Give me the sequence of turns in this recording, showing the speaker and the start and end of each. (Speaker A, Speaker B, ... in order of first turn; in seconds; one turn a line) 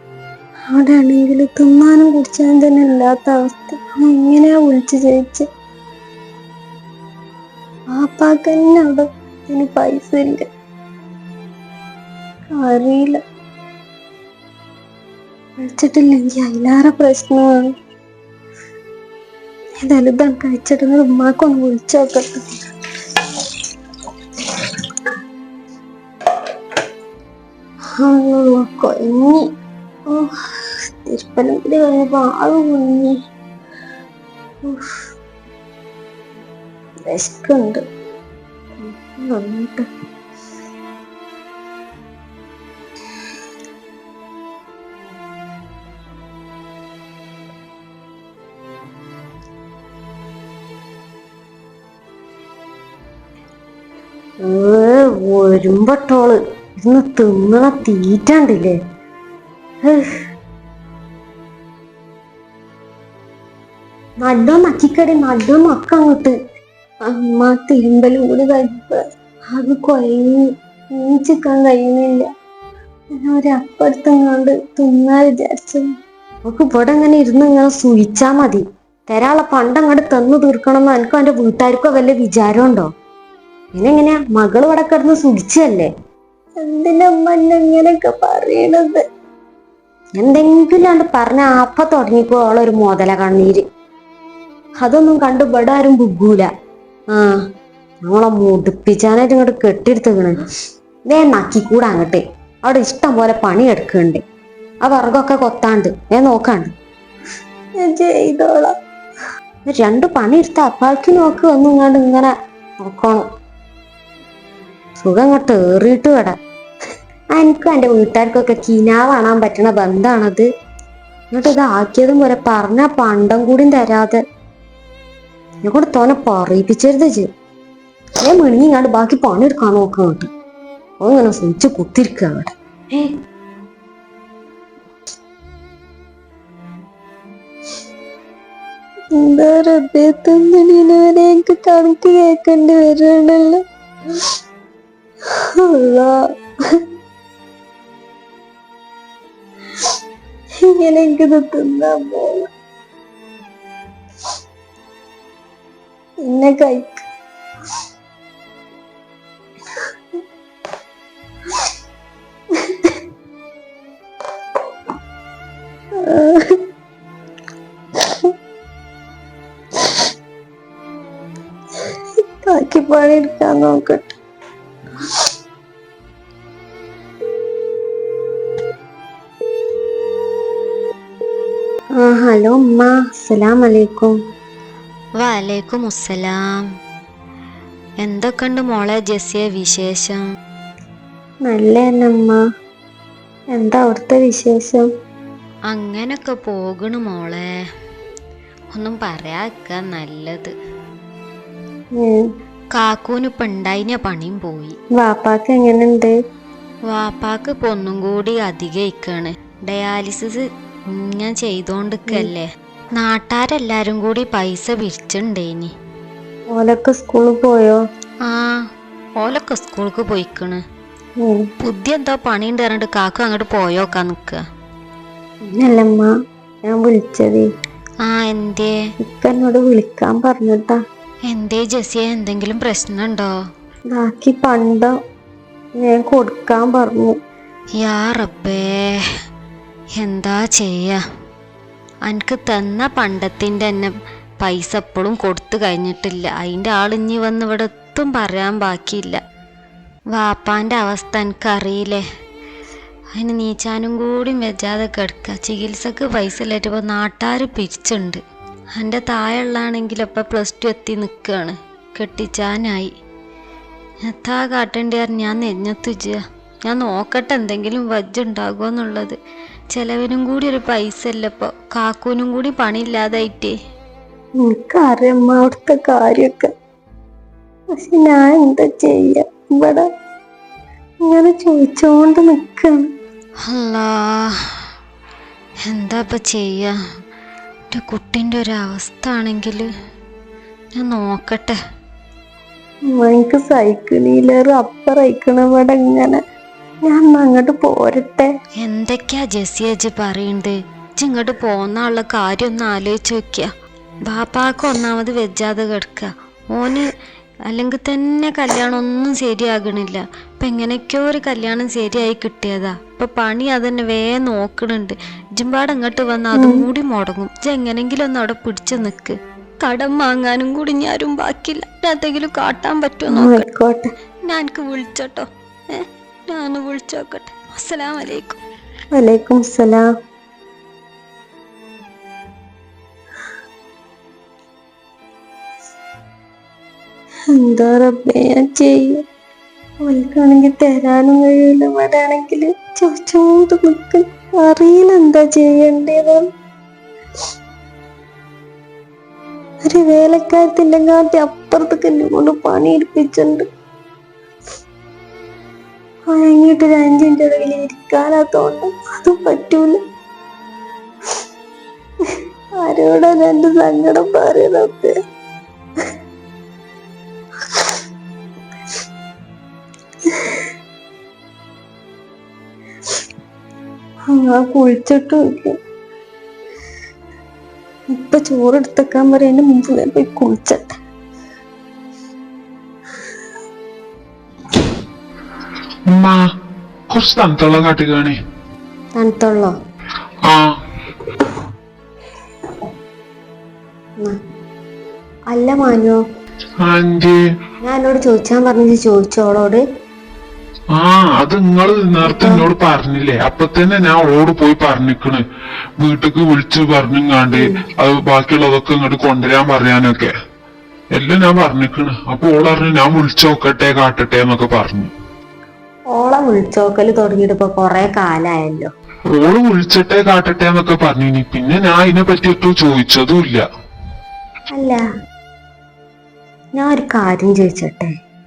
Speaker A: 0.7-5.5
Speaker A: 8.0-10.4
Speaker A: 12.6-13.2
Speaker A: 15.6-17.7
Speaker A: 19.8-22.4
Speaker A: 28.0-29.4
Speaker A: 31.1-33.1
Speaker A: 37.1-37.8
Speaker A: 38.8-39.8
Speaker A: 54.4-58.8
Speaker A: 59.8-60.2
Speaker A: 64.2-66.3
Speaker A: 67.0-69.0
Speaker A: 69.5-70.3
Speaker A: 71.0-72.3
Speaker A: 73.2-75.9
Speaker A: 76.5-82.9
Speaker A: 83.7-85.9
Speaker A: 86.6-89.0
Speaker A: 90.2-93.6
Speaker A: 94.8-96.5
Speaker A: 97.1-97.4
Speaker A: 98.0-100.4
Speaker A: 101.1-104.2
Speaker A: 104.8-106.7
Speaker A: 107.8-108.7
Speaker A: 109.7-112.3
Speaker A: 112.8-113.2
Speaker A: 115.0-116.4
Speaker A: 117.3-120.5
Speaker A: 121.3-124.2
Speaker A: 125.6-127.3
Speaker A: 128.2-130.3
Speaker A: 131.0-133.1
Speaker A: 139.2-143.6
Speaker A: 145.7-146.1
Speaker A: 150.7-152.4
Speaker A: 156.2-157.0
Speaker A: 172.5-174.2
Speaker A: 182.0-184.1
Speaker B: 185.2-186.4
Speaker B: 188.0-190.2
Speaker A: 191.4-192.3
Speaker A: 193.5-194.8
Speaker B: 195.7-197.5
Speaker B: 198.7-200.5
Speaker B: 202.7-204.8
Speaker A: 205.0-206.1
Speaker B: 206.9-212.4
Speaker B: 213.0-215.7
Speaker A: 216.5-217.8
Speaker B: 218.2-218.6
Speaker B: 219.2-220.6
Speaker A: 221.2-221.5
Speaker B: 221.6-224.4
Speaker A: 225.5-226.1
Speaker A: 226.7-227.4
Speaker B: 228.0-228.8
Speaker A: 229.0-230.8
Speaker B: 231.3-233.3
Speaker A: 233.9-234.9
Speaker A: 235.8-237.2
Speaker B: 237.8-239.1
Speaker B: 239.9-241.0
Speaker B: 242.1-249.2
Speaker B: 250.1-252.0
Speaker B: 253.2-258.2
Speaker B: 258.7-262.9
Speaker B: 264.1-269.2
Speaker B: 269.7-273.5
Speaker A: 274.4-276.5
Speaker A: 277.8-279.8
Speaker A: 281.1-282.8
Speaker B: 283.4-284.4
Speaker B: 285.7-286.7
Speaker B: 287.7-289.7
Speaker B: 290.8-291.6
Speaker A: 292.9-296.2
Speaker A: 296.9-298.3
Speaker B: 298.6-303.5
Speaker B: 304.1-306.9
Speaker B: 307.5-323.4
Speaker A: 316.4-316.7
Speaker A: 323.1-323.8
Speaker B: 324.2-328.4
Speaker A: 328.9-329.9
Speaker A: 337.4-339.0
Speaker A: 339.9-346.2
Speaker A: 349.7-353.4
Speaker A: 356.1-359.8
Speaker A: 362.6-364.9
Speaker A: 374.2-375.5
Speaker A: 378.0-380.7
Speaker C: 385.9-386.2
Speaker C: 386.9-388.2
Speaker A: 388.9-389.5
Speaker C: 390.2-390.5
Speaker A: 395.3-396.0
Speaker C: 396.6-397.2
Speaker A: 397.6-399.6
Speaker C: 400.8-405.2
Speaker A: 402.0-402.4
Speaker C: 405.8-410.1
Speaker C: 410.9-414.9
Speaker A: 415.9-418.7
Speaker C: 419.1-423.4
Speaker A: 424.5-424.8
Speaker A: 426.6-427.9